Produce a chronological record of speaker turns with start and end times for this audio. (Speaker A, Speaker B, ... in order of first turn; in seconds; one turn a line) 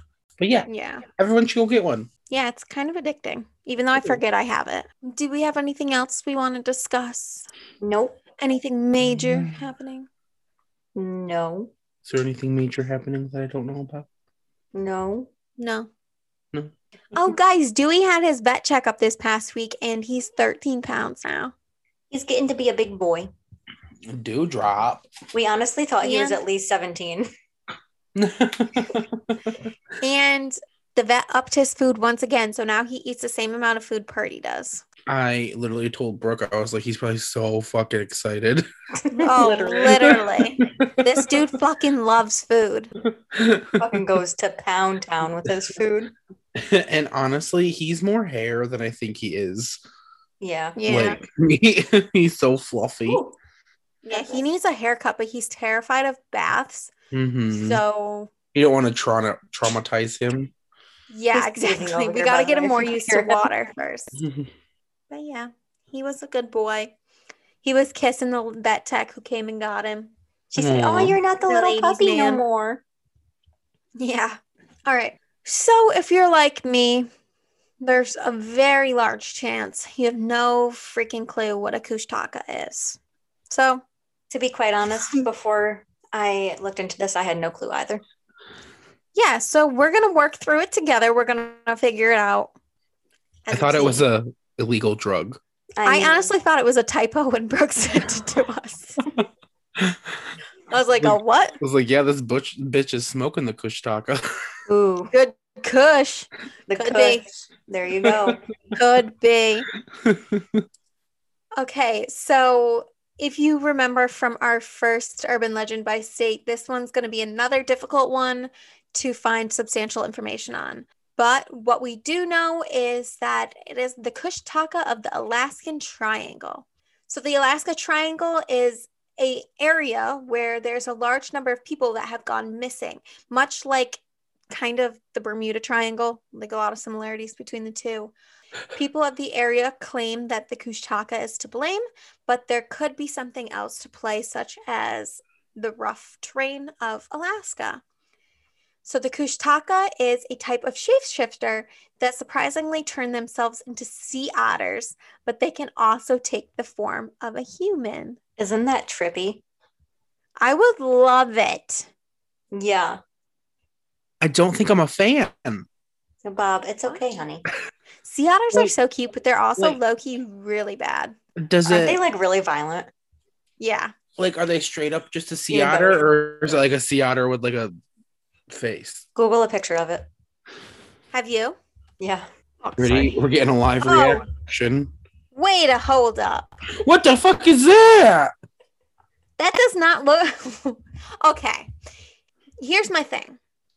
Speaker A: 0.4-2.1
Speaker B: 0.7-1.1
Speaker B: 2.3-7.5
Speaker C: 7.8-8.2
Speaker B: 8.4-10.1
Speaker A: 9.0-9.6
Speaker C: 10.9-11.7
Speaker A: 12.0-14.1
Speaker C: 14.7-15.3
Speaker B: 15.6-15.9
Speaker B: 17.1-21.5
Speaker C: 22.1-23.3
Speaker A: 24.1-25.1
Speaker C: 25.3-27.3
Speaker B: 26.0-26.4
Speaker A: 28.1-29.7
Speaker B: 30.0-34.9
Speaker A: 35.1-38.7
Speaker C: 39.0-40.2
Speaker B: 39.2-42.9
Speaker A: 39.4-40.9
Speaker A: 43.0-43.8
Speaker C: 43.8-46.1
Speaker A: 46.5-49.8
Speaker C: 50.4-50.8
Speaker B: 50.8-51.2
Speaker A: 50.9-53.2
Speaker C: 53.1-53.4
Speaker B: 54.0-56.9
Speaker C: 54.1-54.4
Speaker A: 57.1-57.8
Speaker B: 57.5-58.3
Speaker A: 58.5-60.5
Speaker B: 61.1-64.2
Speaker C: 61.3-63.5
Speaker A: 64.2-64.5
Speaker B: 65.1-66.9
Speaker B: 67.6-70.1
Speaker C: 70.5-72.8
Speaker A: 70.6-71.2
Speaker B: 71.5-72.4
Speaker B: 74.0-77.1
Speaker B: 77.8-83.0
Speaker B: 83.5-83.8
Speaker C: 84.3-88.0
Speaker B: 89.2-92.5
Speaker B: 93.5-94.0
Speaker A: 93.5-95.4
Speaker C: 95.8-96.3
Speaker B: 95.8-99.0
Speaker A: 99.8-100.3
Speaker B: 100.7-101.6
Speaker A: 101.0-104.4
Speaker C: 104.7-105.1
Speaker B: 105.1-107.2
Speaker C: 106.7-108.4
Speaker A: 108.1-108.3
Speaker B: 108.7-109.7
Speaker A: 110.0-110.7
Speaker B: 111.6-138.1
Speaker B: 138.7-147.8
Speaker B: 148.8-158.2
Speaker C: 158.4-159.4
Speaker B: 160.4-161.9
Speaker C: 162.5-163.0
Speaker A: 164.2-165.7
Speaker C: 166.2-167.5
Speaker B: 168.0-171.2
Speaker A: 171.4-172.0
Speaker C: 171.7-172.9
Speaker B: 173.6-173.9
Speaker A: 174.2-177.7
Speaker C: 175.5-176.1
Speaker A: 178.5-179.1
Speaker C: 179.2-180.1
Speaker B: 181.1-181.6
Speaker C: 182.0-182.3
Speaker B: 182.6-183.2
Speaker A: 182.8-184.9
Speaker B: 183.8-184.2
Speaker B: 185.3-186.6
Speaker A: 186.8-188.3
Speaker B: 189.4-191.7
Speaker B: 192.6-193.4